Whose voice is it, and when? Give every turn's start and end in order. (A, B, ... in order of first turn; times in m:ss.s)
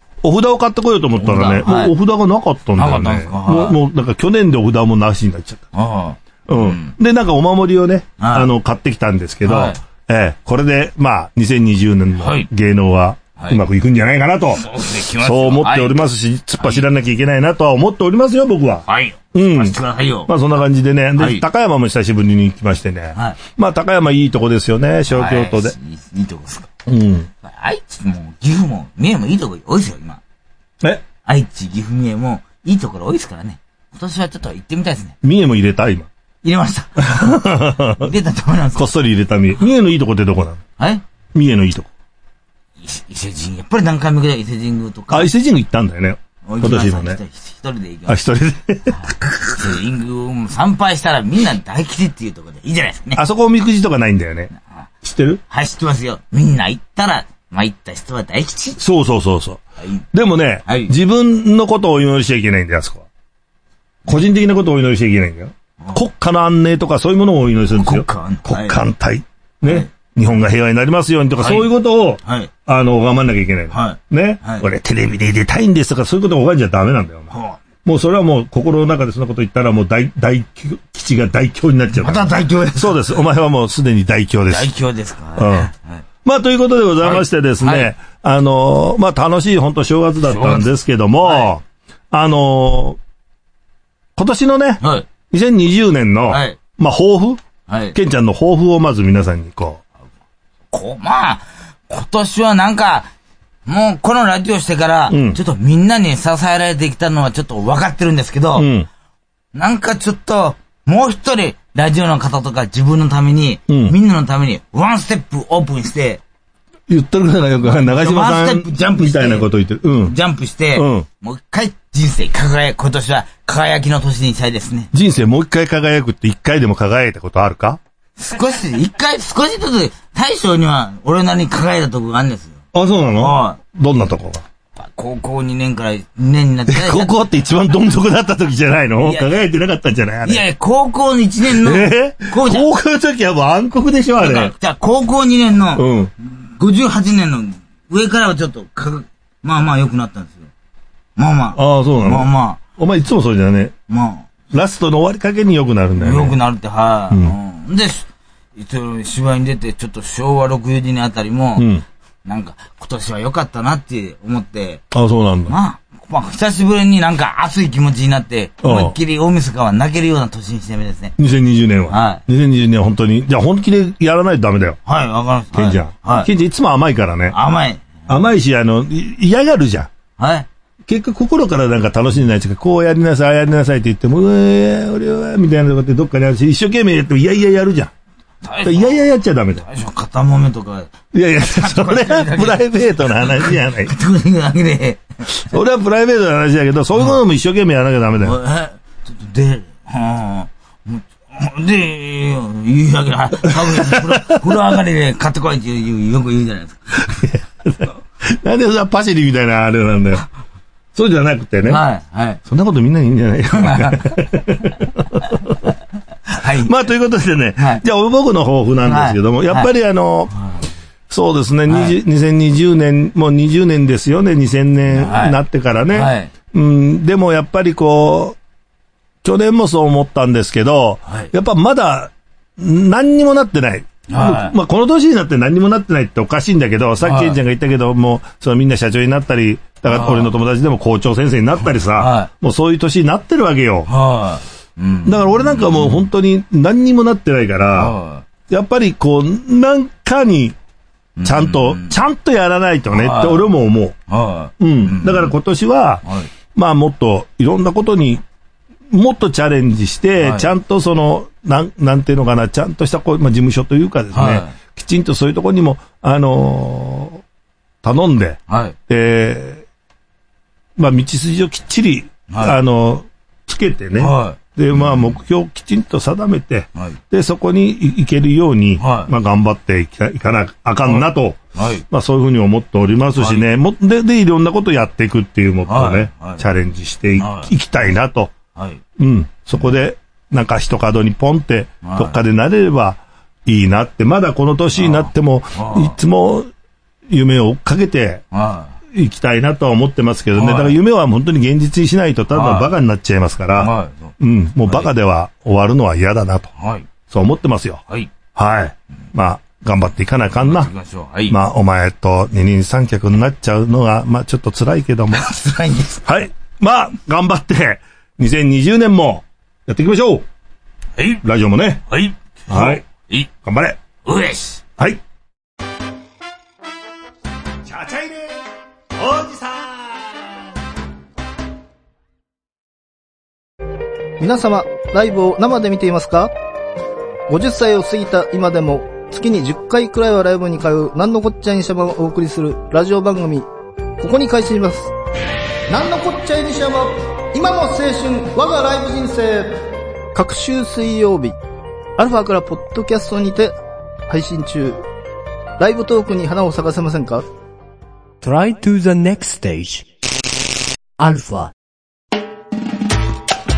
0:00.2-0:05.7 A
0:01.2-0:01.9 B
0:02.8-0:03.8 B
0:05.7-0:06.9 B
0:06.5-0:19.8 A
0:08.2-0:08.5 B
0:09.4-0:09.8 B
0:12.2-0:12.5 B
0:14.6-0:16.0 B
0:16.6-0:16.8 B
0:18.9-0:20.3 B
0:20.3-0:25.8 A
0:21.2-0:21.4 B
0:25.1-0:26.7 B
0:26.9-0:27.3 A
0:27.4-0:30.2 B
0:31.2-0:35.2 B
0:35.2-0:36.1 A
0:36.4-0:37.2 B
0:37.0-0:38.1 A
0:38.0-0:38.9 B
0:38.8-0:40.6 A
0:41.3-0:41.9 A
0:42.8-0:45.3 B
0:45.1-0:47.2 A
0:46.4-0:48.2 B
0:48.1-0:49.1 A
0:48.9-0:53.2 B
0:53.2-0:54.5 A
0:55.0-0:55.4 A
0:55.5-0:58.8 B
0:58.8-0:59.6 A
0:59.8-1:00.0 B
1:00.1-1:03.0 A
1:00.6-1:00.9 B
1:04.1-1:17.3 A
1:07.7-1:08.8 B
1:09.6-1:09.9 B
1:11.4-1:11.7 B
1:12.2-1:12.5 B
1:13.7-1:14.6 B
1:17.3-1:17.6 B
1:17.8-1:24.7 A
1:21.9-1:23.1 B
1:24.5-1:26.0 B
1:25.4-1:25.7 A
1:26.2-1:33.0 A
1:27.0-1:27.9 B
1:30.3-1:30.7 B
1:31.2-1:31.5 B
1:34.2-1:37.4 A
1:34.8-1:35.1 B
1:36.3-1:36.6 B
1:37.7-1:38.0 B
1:37.9-1:39.8 A
1:40.7-1:43.1 B
1:43.6-1:48.7 B
1:45.1-1:45.4 A
1:48.6-1:48.9 A
1:49.5-1:56.2 B
1:53.7-1:53.9 A
1:56.9-2:00.1 A
1:57.6-1:59.5 B
2:00.0-2:04.9 B
2:00.8-2:01.1 A
2:04.9-2:07.8 A
2:08.2-2:12.6 B
2:12.7-2:14.4 A
2:13.2-2:13.6 B
2:14.8-2:17.2 B
2:16.7-2:20.4 A
2:19.0-2:19.3 B
2:20.2-2:22.7 B
2:21.5-2:24.5 A
2:24.2-2:30.5 B
2:25.8-2:26.1 A
2:31.2-2:32.6 B
2:31.6-2:33.7 A
2:33.9-2:34.3 B
2:34.5-2:36.4 A
2:36.0-2:41.7 B
2:41.6-2:41.8 A
2:42.2-2:44.8 B
2:44.9-2:45.5 A
2:45.5-2:51.1 B
2:48.6-2:49.0 A
2:51.2-2:54.8 A
2:51.9-2:52.2 B
2:54.9-2:56.3 B
2:55.5-2:57.4 A
2:57.3-2:58.1 B
2:58.1-2:59.9 A
3:00.2-3:00.5 B
3:00.9-3:07.9 A
3:08.4-3:09.1 B
3:08.6-3:09.6 A
3:09.6-3:15.5 B
3:11.1-3:13.9 A
3:15.4-3:18.4 A
3:18.2-3:27.3 B
3:23.8-3:24.3 A
3:27.2-3:30.3 A
3:30.9-3:31.8 A
3:31.6-3:32.4 B
3:32.4-3:35.7 A
3:33.5-3:34.0 B
3:36.3-3:36.7 B
3:36.6-3:40.3 A
3:37.6-3:37.8 B
3:38.8-3:39.7 B
3:41.1-3:48.4 A
3:41.7-3:41.9 B
3:44.9-3:45.4 B
3:45.9-3:46.3 B
3:49.2-4:03.9 A
3:54.1-3:54.6 B
3:57.0-3:57.4 B
3:59.9-4:00.3 B
4:01.9-4:02.3 B
4:03.9-4:06.1 B
4:05.0-4:07.9 A
4:07.8-4:08.3 B
4:08.5-4:10.6 A
4:11.2-4:11.9 B
4:11.2-4:14.0 A
4:12.9-4:13.5 B
4:14.1-4:15.3 B
4:14.6-4:16.0 A
4:16.0-4:16.3 B
4:16.6-4:18.2 A
4:18.9-4:27.2 A
4:20.2-4:20.5 B
4:24.1-4:24.5 B
4:27.8-4:29.6 A
4:28.5-4:28.8 B
4:30.8-4:48.3 A
4:32.3-4:32.6 B
4:34.0-4:35.0 B
4:38.8-4:39.1 B
4:40.8-4:41.8 B
4:43.2-4:43.4 B
4:45.6-4:46.4 B
4:47.2-4:47.5 B
4:48.6-4:48.8 B
4:49.0-4:56.5 A
4:51.8-4:52.2 B
4:54.8-4:56.0 B
4:57.1-4:58.2 A
4:58.3-4:58.8 B
4:58.9-5:06.5 A
5:00.3-5:00.8 B
5:02.3-5:02.7 B
5:03.5-5:04.1 B
5:04.6-5:04.9 B
5:06.6-5:06.9 B
5:07.1-5:07.8 A
5:08.3-5:10.7 A
5:10.4-5:11.4 B
5:11.3-5:15.3 A
5:15.1-5:16.0 B
5:16.0-5:20.3 A
5:21.2-5:21.8 A
5:21.9-5:23.3 B
5:22.5-5:22.8 A
5:23.4-5:23.8 A
5:24.0-5:24.6 B
5:27.6-5:30.2 A
5:34.2-5:36.3 C
5:37.3-5:43.5 C
5:44.0-5:44.9 C
5:45.7-5:49.6 C
5:50.1-5:51.4 C
5:52.0-5:53.6 C
5:54.1-5:54.8 C
5:55.6-5:57.2 C
5:58.2-5:59.9 D
6:01.0-6:01.5 D